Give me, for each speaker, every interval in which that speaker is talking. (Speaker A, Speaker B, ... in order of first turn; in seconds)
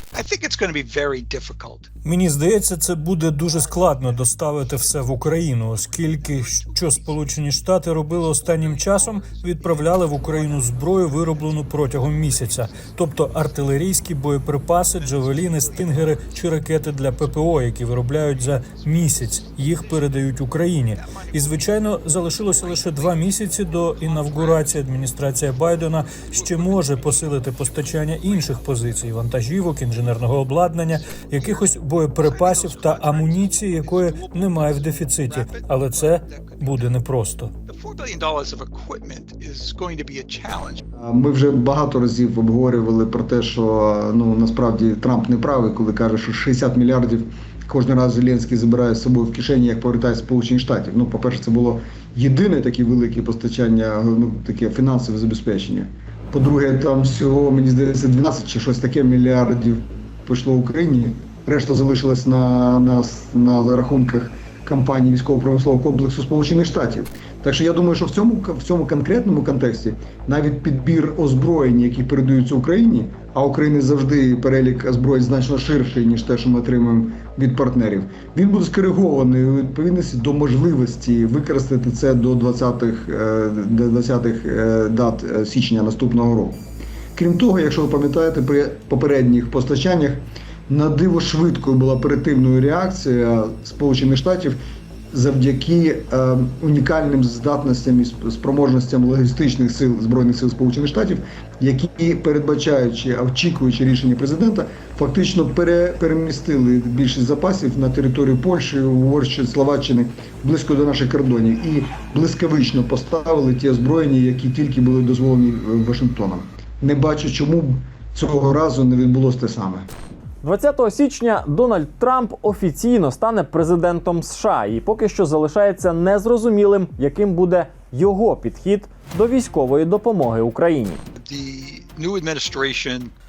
Speaker A: 0.1-1.9, 19.8-24.7, 26.3-29.0, 31.1-31.7, 32.2-37.0, 37.6-40.8, 131.1-133.1
Speaker B: 2.0-37.5
Speaker C: 41.0-86.6, 87.2-94.6, 95.1-119.9
Speaker D: 120.4-131.0